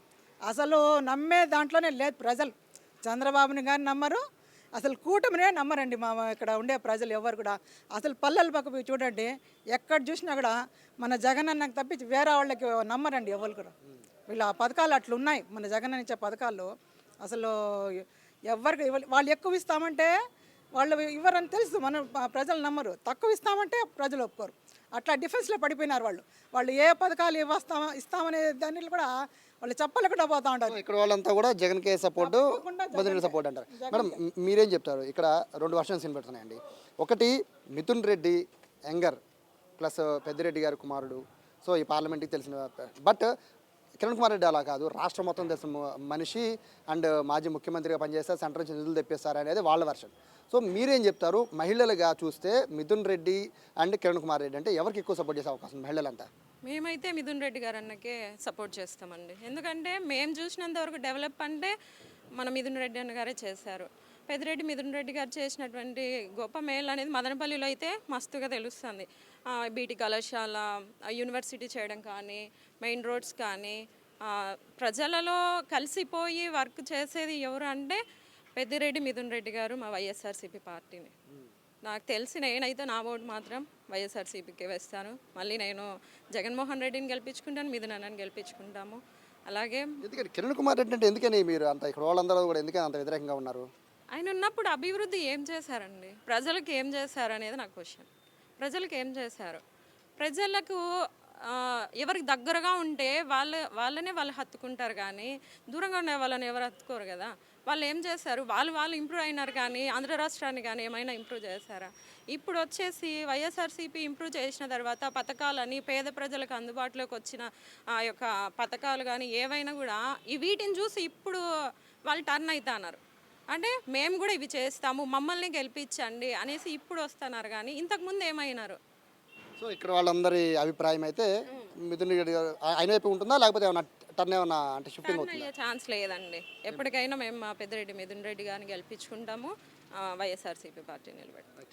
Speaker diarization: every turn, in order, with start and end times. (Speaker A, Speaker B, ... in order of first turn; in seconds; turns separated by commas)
Speaker A: 0.5-2.5, Speaker A: 3.0-4.2, Speaker A: 4.8-13.7, Speaker A: 14.3-16.7, Speaker A: 17.2-20.1, Speaker A: 20.8-29.1, Speaker A: 29.6-30.8, Speaker B: 30.7-39.2, Speaker A: 32.2-34.1, Speaker B: 39.8-43.3, Speaker B: 44.0-56.3, Speaker C: 56.7-61.7, Speaker C: 62.4-78.0, Speaker C: 78.6-81.1, Speaker C: 81.9-90.0, Speaker B: 90.0-93.7, Speaker C: 94.1-98.1, Speaker C: 98.6-99.6, Speaker C: 100.2-100.8, Speaker C: 101.5-117.5, Speaker C: 118.0-121.4, Speaker C: 122.1-123.0, Speaker C: 123.5-128.8, Speaker B: 129.6-135.5, Speaker C: 135.0-141.5